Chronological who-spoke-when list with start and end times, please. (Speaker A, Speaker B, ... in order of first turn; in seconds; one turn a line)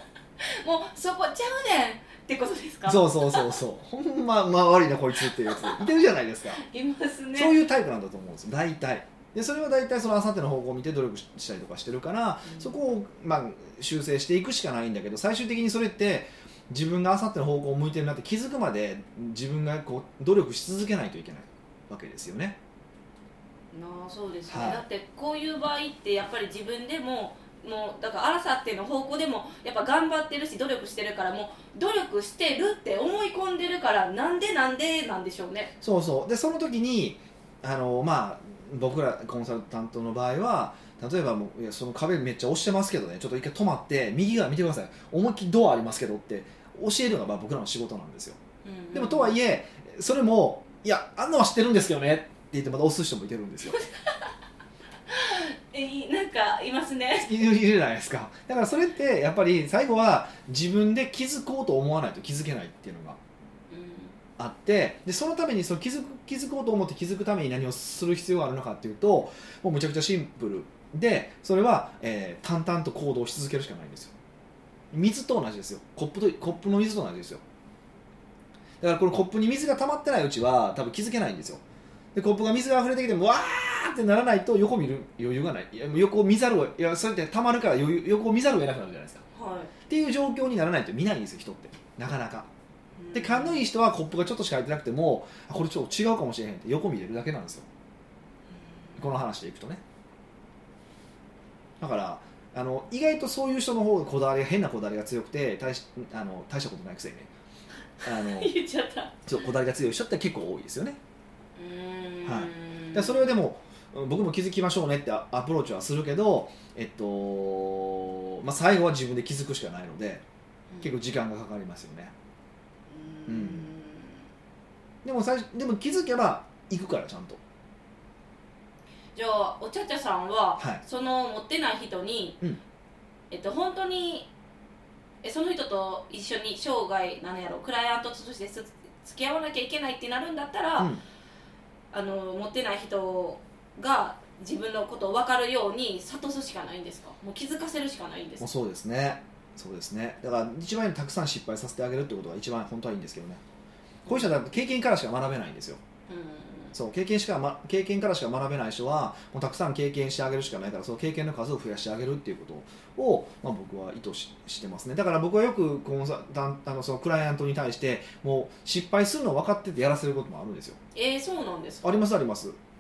Speaker A: 0.4-3.6
Speaker B: 2.9-6.6
Speaker A: 5.2-5.8
Speaker A: 6.5-7.6
Speaker B: 7.4-22.6
Speaker A: 12.4-12.7
Speaker A: 23.7-35.7
Speaker B: 24.5-24.8
Speaker B: 35.8-48.4
Speaker A: 48.6-49.4
Speaker B: 48.9-53.8
Speaker A: 55.1-57.3
Speaker B: 57.2-63.2
Speaker A: 63.7-64.2
Speaker B: 64.4-74.1
Speaker B: 74.9-77.4
Speaker B: 78.8-81.6
Speaker B: 82.2-89.2
Speaker A: 89.3-89.7
Speaker B: 89.9-92.5
Speaker A: 93.0-93.6
Speaker B: 93.1-97.7
Speaker B: 99.0-99.8
Speaker B: 101.8-107.3
Speaker B: 108.0-108.5
Speaker A: 108.0-109.2
Speaker B: 109.3-111.0
Speaker A: 111.6-113.3
Speaker B: 112.2-120.2
Speaker B: 120.8-122.1
Speaker A: 122.9-124.2
Speaker B: 123.3-123.7
Speaker B: 125.0-127.4
Speaker A: 129.2-132.4
Speaker A: 133.3-134.3
Speaker A: 135.2-140.9
Speaker A: 141.9-148.5
Speaker B: 148.4-153.4
Speaker B: 154.1-155.8
Speaker A: 156.1-156.8
Speaker B: 156.7-170.8
Speaker A: 170.9-172.0
Speaker B: 171.8-172.6